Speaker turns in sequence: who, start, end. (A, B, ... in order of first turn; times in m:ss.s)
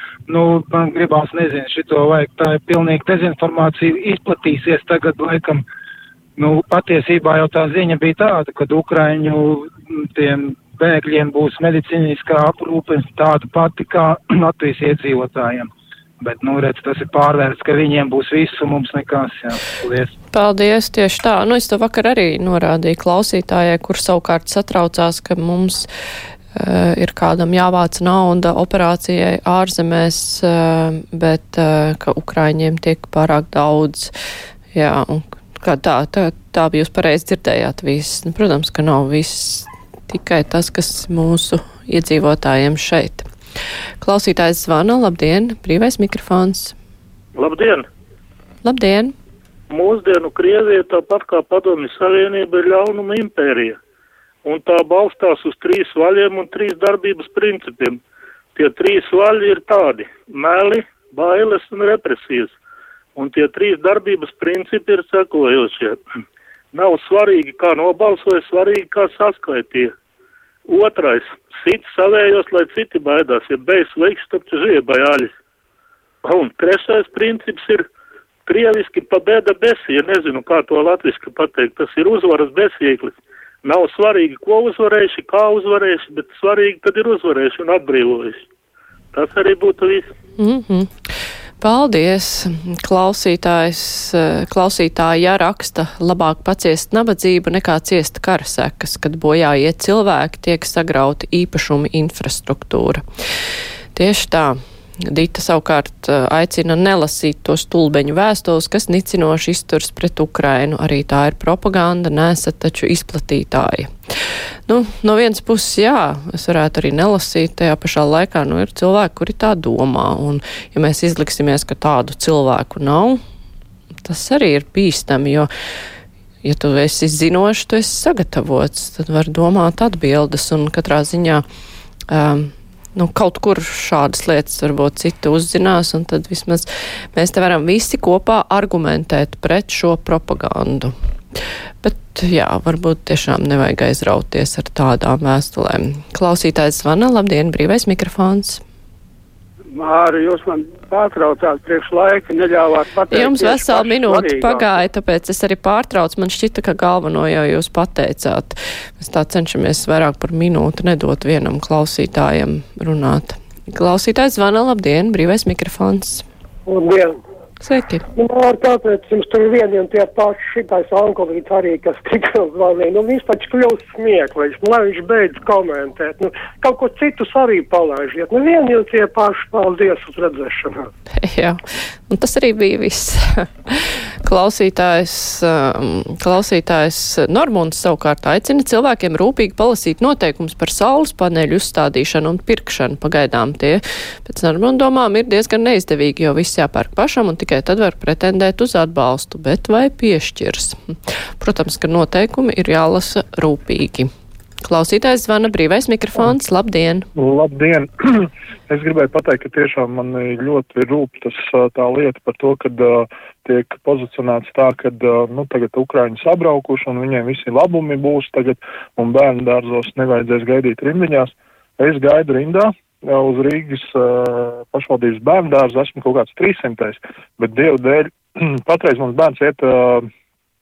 0:00.3-0:05.6 A
0:06.4-0:15.7 A
0:16.2-0:20.1 A
0:20.3-0:25.9 B
0:26.5-0:34.1 B
0:34.7-0:43.2 B
0:44.0-0:46.8 B
0:47.4-0:47.9 C
0:48.6-0:49.1 B
0:49.7-0:53.8 C
0:54.4-0:58.0 C
0:58.6-1:02.5 C
1:03.2-1:06.0 C
1:06.7-1:09.9 C
1:10.7-1:15.3 C
1:16.2-1:17.8 C
1:18.4-1:28.4 C
1:29.1-1:30.1 C
1:30.4-1:30.9 B
1:31.6-1:43.0 B
1:43.9-1:53.9 B
1:54.7-2:03.2 B
2:04.0-2:05.5 B
2:06.4-2:11.4 B
2:12.1-2:20.9 B
2:21.8-2:28.6 B
2:29.7-2:34.8 D
2:33.1-2:46.2 B
2:46.7-2:47.2 E
2:47.6-2:48.0 B
2:48.1-3:00.9 E
3:01.2-3:01.6 B
3:02.1-3:20.8 B
3:21.4-3:24.1 B
3:24.6-3:27.1 B
3:27.2-3:50.1 F